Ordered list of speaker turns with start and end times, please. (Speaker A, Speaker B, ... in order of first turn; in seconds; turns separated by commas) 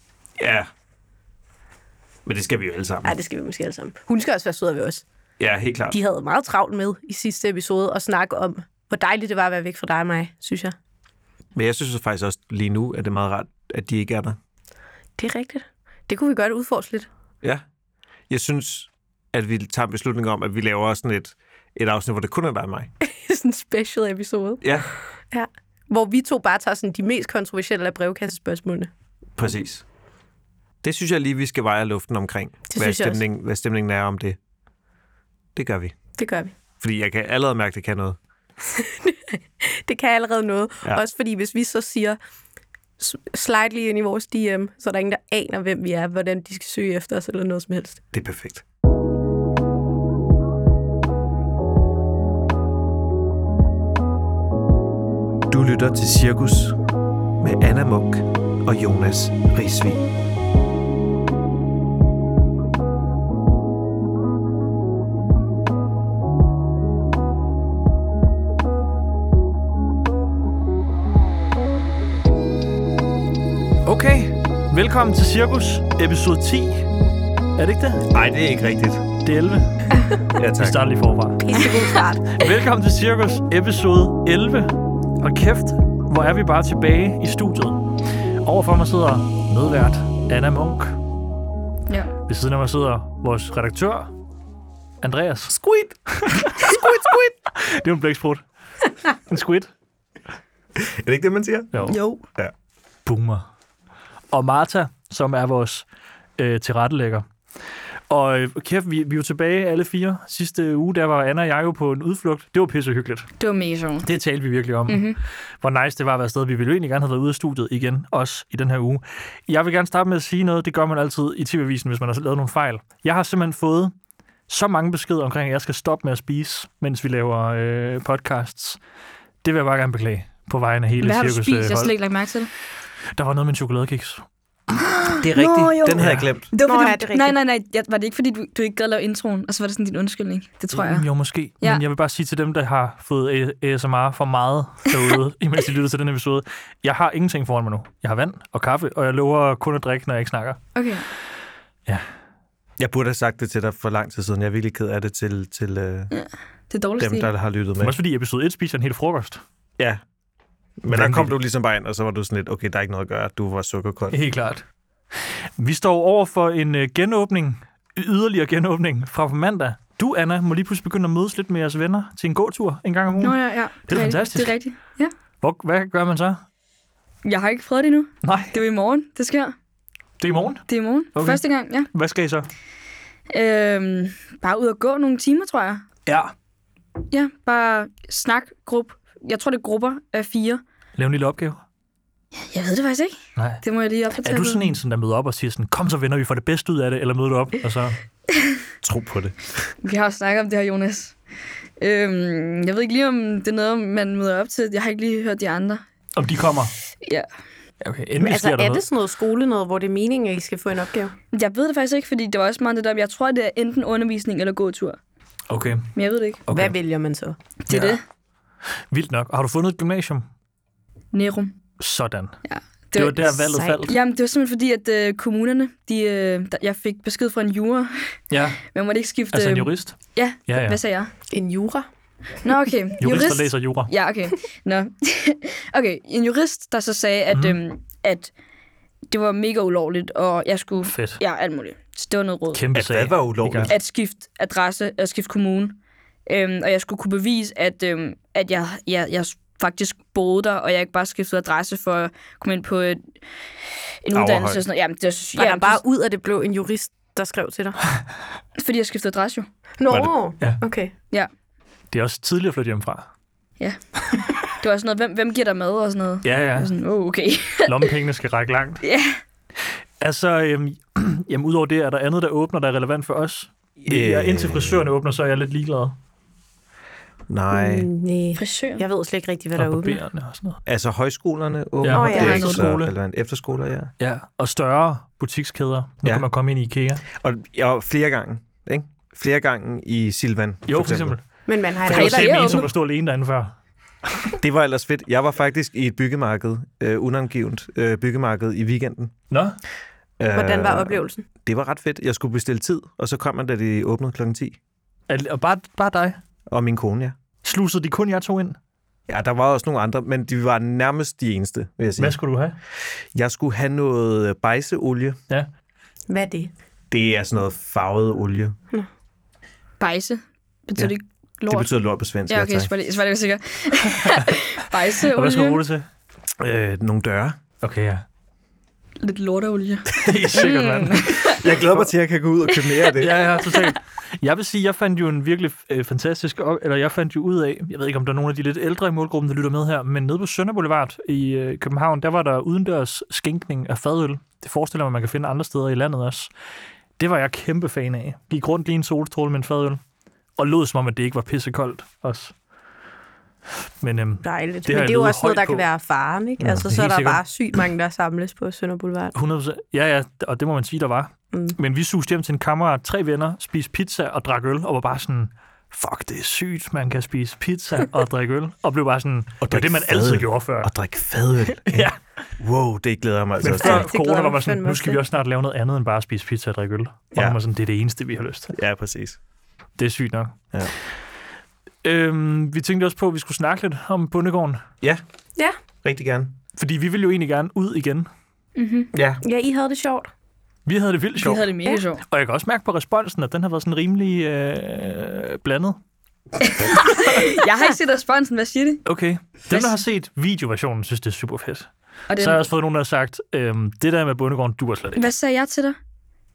Speaker A: 0.4-0.7, Speaker A: 2.2-3.1, Speaker B: 3.0-5.0, Speaker A: 5.4-6.0, Speaker B: 5.9-10.8, Speaker A: 11.5-14.4, Speaker B: 15.2-17.1, Speaker A: 18.3-22.9, Speaker B: 23.0-24.6, Speaker A: 24.6-24.9, Speaker B: 25.3-28.9, Speaker A: 29.4-29.8, Speaker A: 30.8-34.4, Speaker B: 32.7-33.2, Speaker A: 35.5-36.0, Speaker B: 36.2-36.5, Speaker A: 36.8-38.2, Speaker B: 38.6-42.2, Speaker B: 43.0-48.0, Speaker A: 48.1-48.6, Speaker A: 55.5-56.8, Speaker A: 57.4-60.0, Speaker C: 73.8-76.9, Speaker C: 77.6-78.0, Speaker A: 78.1-79.1, Speaker C: 79.2-79.9, Speaker A: 80.3-80.9, Speaker C: 80.6-81.6, Speaker B: 81.4-82.3, Speaker C: 82.3-87.8, Speaker C: 88.4-91.0, Speaker C: 92.3-94.1, Speaker C: 95.0-95.5, Speaker A: 95.5-96.0, Speaker C: 96.1-97.0, Speaker A: 96.6-97.3, Speaker C: 97.5-98.4, Speaker C: 99.3-99.7, Speaker A: 100.8-101.7, Speaker C: 101.7-102.0, Speaker D: 101.8-102.2, Speaker C: 103.0-103.5, Speaker C: 104.3-105.8, Speaker C: 106.4-107.2, Speaker C: 108.1-113.3, Speaker D: 113.4-114.1, Speaker C: 114.0-123.9, Speaker D: 114.9-115.2, Speaker C: 124.5-128.8, Speaker C: 129.4-131.9, Speaker D: 131.0-132.5, Speaker C: 133.1-134.9, Speaker A: 135.2-136.5, Speaker D: 135.3-141.1, Speaker C: 136.0-136.3, Speaker B: 136.7-137.4, Speaker C: 140.7-150.6, Speaker D: 150.7-151.1, Speaker A: 152.8-156.1, Speaker D: 156.1-157.3, Speaker A: 157.0-158.0, Speaker C: 157.8-159.4, Speaker A: 160.8-164.2, Speaker C: 160.9-161.4, Speaker C: 164.1-164.6, Speaker C: 165.6-174.6, Speaker D: 173.2-175.1, Speaker C: 175.4-176.4, Speaker D: 177.2-179.5, Speaker C: 178.2-178.6, Speaker C: 180.2-182.5, Speaker D: 180.7-181.9, Speaker D: 183.3-185.8, Speaker C: 186.1-186.3, Speaker D: 187.1-190.6, Speaker C: 191.0-191.6, Speaker D: 192.5-194.6, Speaker C: 193.4-193.6, Speaker C: 194.2-198.0, Speaker A: 198.8-199.7, Speaker D: 199.8-201.1, Speaker D: 201.8-205.8, Speaker C: 206.1-206.7, Speaker C: 207.8-208.8, Speaker B: 208.2-211.1, Speaker D: 211.3-215.0, Speaker C: 215.5-215.9, Speaker D: 215.9-216.4, Speaker C: 216.4-216.7, Speaker B: 216.5-217.3, Speaker D: 217.7-218.0, Speaker C: 217.7-218.0, Speaker C: 218.9-220.2, Speaker D: 221.1-221.6, Speaker C: 221.8-222.4, Speaker D: 222.4-223.3, Speaker C: 222.9-224.0, Speaker B: 223.4-223.9, Speaker D: 223.9-228.1, Speaker C: 228.3-228.6, Speaker D: 228.7-231.1, Speaker C: 229.3-229.9, Speaker C: 230.5-230.8, Speaker B: 231.3-231.9, Speaker D: 232.4-238.3, Speaker C: 233.0-233.9, Speaker C: 237.3-237.6, Speaker D: 239.1-242.6, Speaker C: 240.9-241.2, Speaker C: 242.5-243.7, Speaker A: 242.7-243.8, Speaker D: 243.7-253.0, Speaker D: 254.0-255.8, Speaker A: 254.1-254.6, Speaker B: 255.4-257.8, Speaker D: 258.6-259.5, Speaker B: 259.8-260.9, Speaker C: 259.9-260.6, Speaker C: 261.9-263.1, Speaker D: 264.4-267.9, Speaker C: 266.2-266.7, Speaker C: 267.6-268.8, Speaker D: 268.8-269.2, Speaker C: 270.0-275.9, Speaker A: 273.9-274.9, Speaker A: 277.3-277.9, Speaker B: 277.5-280.0, Speaker D: 278.4-278.8, Speaker C: 279.6-280.6, Speaker A: 280.6-283.9, Speaker C: 281.8-282.9, Speaker B: 281.9-282.5, Speaker D: 282.2-282.6, Speaker C: 284.0-287.0, Speaker A: 287.1-291.1, Speaker C: 290.7-291.2, Speaker B: 291.5-292.6, Speaker C: 291.9-293.5, Speaker D: 291.9-292.7, Speaker C: 294.1-294.3, Speaker A: 294.4-299.1, Speaker C: 299.3-299.6, Speaker A: 300.2-304.6, Speaker B: 300.3-301.2, Speaker C: 305.1-306.2, Speaker A: 306.5-307.1, Speaker C: 307.4-308.6, Speaker A: 309.1-312.2, Speaker C: 312.0-312.6, Speaker A: 313.1-315.2, Speaker B: 316.1-316.5, Speaker A: 316.9-318.5, Speaker D: 319.8-321.8, Speaker A: 321.5-322.7, Speaker D: 322.3-325.6, Speaker C: 325.0-325.9, Speaker A: 326.4-327.4, Speaker C: 327.6-328.0, Speaker D: 329.0-331.4, Speaker C: 329.9-331.5, Speaker A: 331.2-333.3, Speaker C: 333.0-346.3, Speaker C: 347.0-349.8, Speaker C: 350.4-352.3, Speaker C: 353.8-355.6, Speaker B: 354.2-359.1, Speaker C: 356.6-357.2, Speaker C: 359.1-370.7, Speaker A: 369.4-373.9, Speaker C: 371.6-372.0, Speaker C: 373.4-378.5, Speaker B: 373.4-375.0, Speaker A: 378.5-379.2, Speaker C: 379.8-380.3, Speaker C: 381.8-384.6, Speaker A: 385.8-386.3, Speaker C: 386.6-388.1, Speaker D: 388.6-388.9, Speaker A: 388.9-389.2, Speaker B: 389.2-390.1, Speaker C: 390.6-391.4, Speaker D: 391.2-392.0, Speaker C: 392.1-395.8, Speaker D: 396.4-398.8, Speaker C: 398.9-405.1, Speaker D: 402.1-402.5, Speaker D: 404.9-405.8